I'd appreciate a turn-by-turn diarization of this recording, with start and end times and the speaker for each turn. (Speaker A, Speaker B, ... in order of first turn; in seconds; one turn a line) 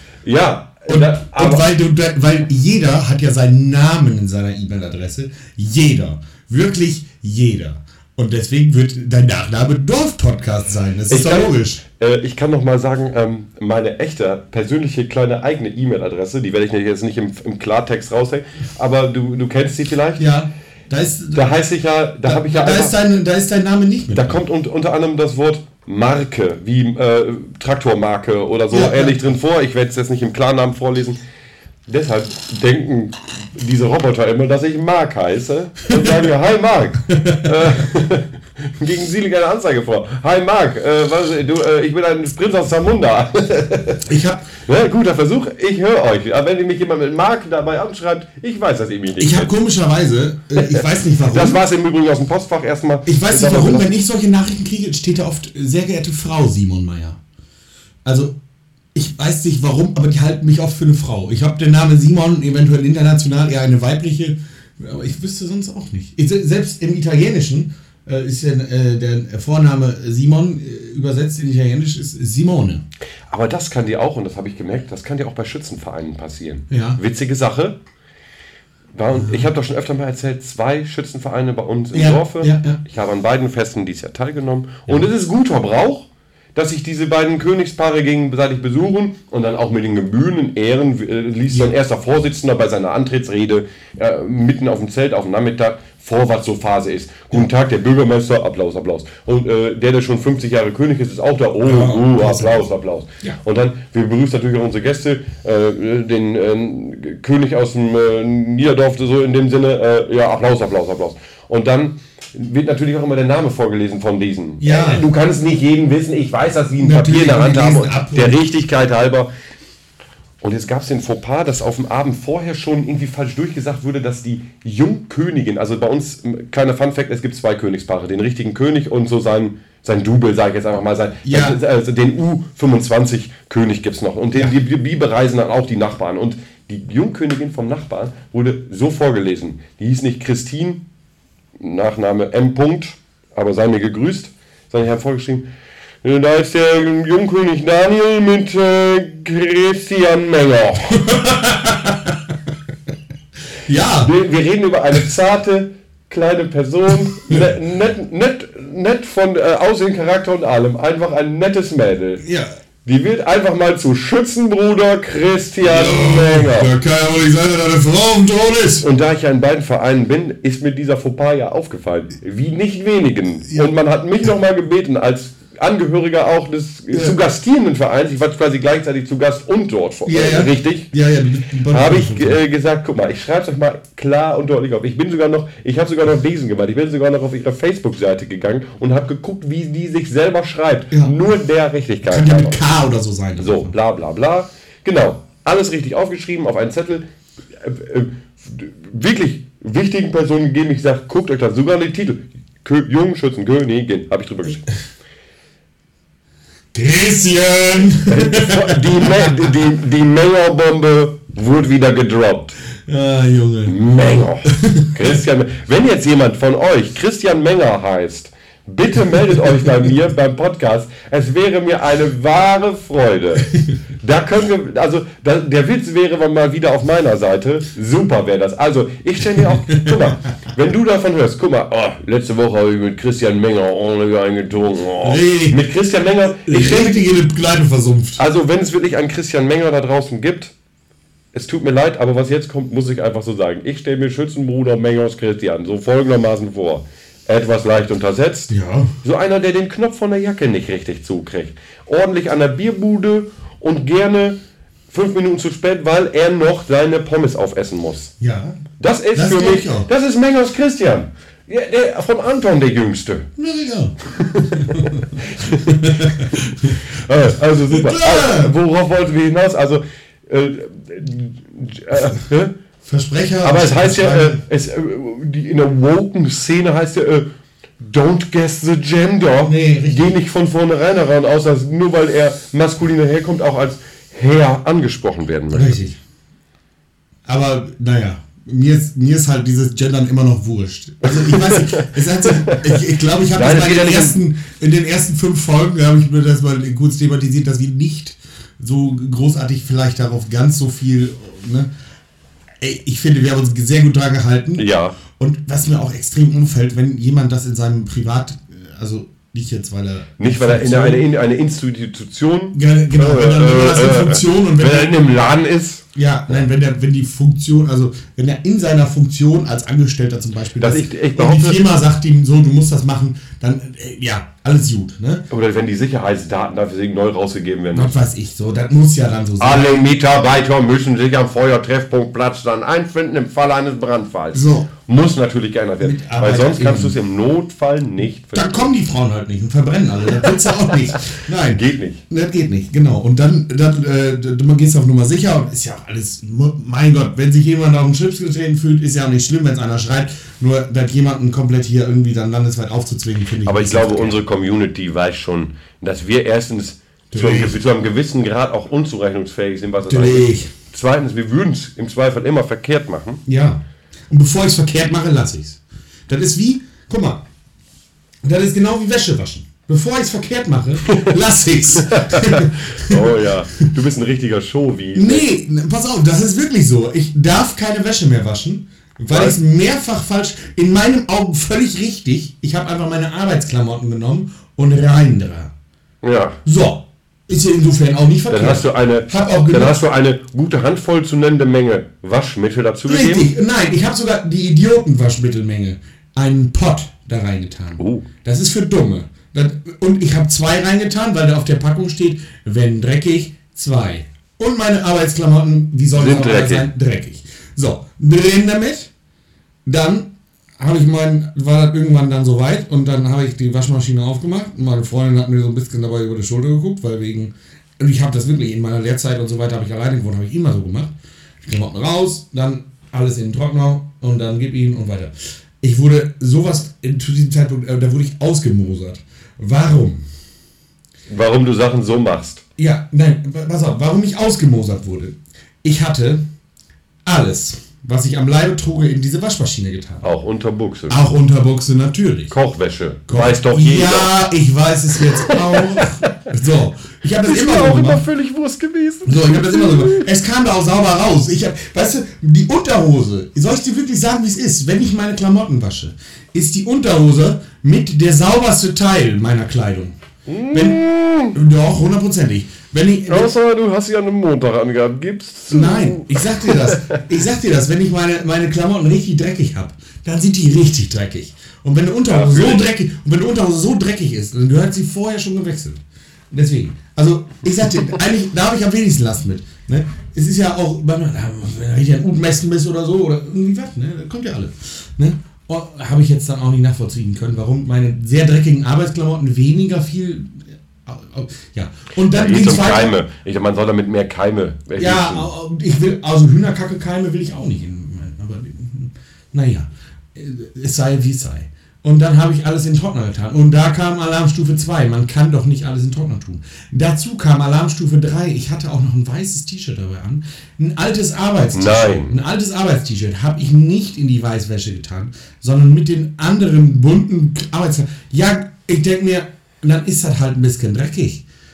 Speaker A: 0.2-1.7
Speaker B: 0.9-11.8
Speaker A: 11.1-20.2
Speaker B: 20.2-21.5
Speaker A: 21.3-23.0
Speaker B: 22.2-24.4
Speaker A: 24.1-31.2
Speaker B: 28.7-29.2
Speaker A: 31.9-44.1
Speaker B: 37.1-37.5
Speaker B: 44.0-44.5
Speaker A: 44.6-49.5
Speaker B: 49.2-51.6
Speaker A: 50.5-53.9
Speaker B: 53.0-57.2
Speaker B: 58.0-58.4
Speaker B: 58.9-72.8
Speaker A: 73.3-77.8
Speaker B: 76.7-77.0
Speaker A: 78.9-119.3
Speaker B: 81.9-82.8
Speaker B: 101.6-102.6
Speaker B: 114.6-115.0
Speaker B: 116.8-118.4
Speaker A: 120.4-140.8
Speaker B: 131.2-131.6
Speaker A: 141.6-145.4
Speaker A: 146.0-151.1
Speaker B: 151.0-152.2
Speaker B: 153.7-154.1
Speaker A: 154.0-162.2
Speaker B: 162.2-162.5
Speaker A: 162.8-166.7
Speaker B: 165.6-168.8
Speaker A: 168.8-180.9
Speaker B: 176.9-177.2
Speaker B: 180.1-182.4
Speaker A: 181.7-192.6
Speaker B: 192.0-193.7
Speaker A: 193.4-197.0
Speaker A: 197.6-204.7
Speaker B: 206.7-209.5
Speaker A: 208.1-212.6
Speaker B: 212.9-213.7
Speaker A: 213.7-237.1
Speaker B: 214.5-215.1
Speaker B: 229.6-229.9
Speaker B: 235.0-235.6
Speaker B: 236.4-238.2
Speaker A: 238.2-240.5
Speaker A: 241.3-248.5
Speaker B: 248.5-248.9
Speaker A: 249.0-254.4
Speaker A: 254.9-258.1
Speaker B: 258.2-258.6
Speaker A: 258.8-263.3
Speaker B: 259.1-259.9
Speaker B: 263.4-266.8
Speaker A: 264.1-272.5
Speaker B: 267.5-268.5
Speaker B: 272.8-274.4
Speaker A: 273.4-277.3
Speaker A: 277.8-285.8
Speaker B: 279.4-280.1
Speaker B: 285.5-286.0
Speaker B: 287.2-301.7
Speaker A: 291.0-294.2
Speaker B: 302.6-311.0
Speaker A: 304.6-305.0
Speaker A: 310.2-315.9
Speaker B: 312.5-314.9
Speaker B: 315.9-325.2
Speaker A: 320.6-321.6
Speaker A: 325.3-328.0
Speaker B: 327.7-329.9
Speaker A: 329.4-338.7
Speaker B: 334.3-334.7
Speaker B: 335.8-336.9
Speaker B: 338.3-354.2
Speaker A: 341.5-342.0
Speaker A: 353.4-363.2
Speaker B: 357.1-357.6
Speaker B: 359.9-360.5
Speaker B: 363.2-367.2
Speaker B: 368.2-373.3
Speaker A: 370.9-371.1
Speaker A: 371.7-375.3
Speaker B: 374.9-385.5
Speaker A: 379.1-379.4
Speaker A: 386.0-386.4
Speaker B: 386.4-389.8
Speaker A: 388.3-393.3
Speaker B: 392.9-408.9
Speaker A: 397.8-398.1
Speaker A: 405.9-406.7
Speaker B: 409.6-420.9
Speaker B: 421.4-430.0
Speaker A: 431.1-432.4
Speaker B: 432.6-436.2
Speaker B: 437.0-440.1
Speaker A: 440.0-441.0
Speaker B: 440.9-442.3
Speaker A: 442.3-444.1
Speaker B: 443.1-448.1
Speaker A: 445.0-446.1
Speaker A: 447.2-450.1
Speaker B: 449.1-459.9
Speaker A: 460.3-461.4
Speaker B: 460.5-460.8
Speaker B: 461.3-463.3
Speaker A: 463.1-467.0
Speaker B: 465.5-475.8
Speaker A: 472.1-472.6
Speaker B: 476.3-493.0
Speaker A: 492.1-495.3
Speaker B: 494.8-521.2
Speaker A: 511.5-512.1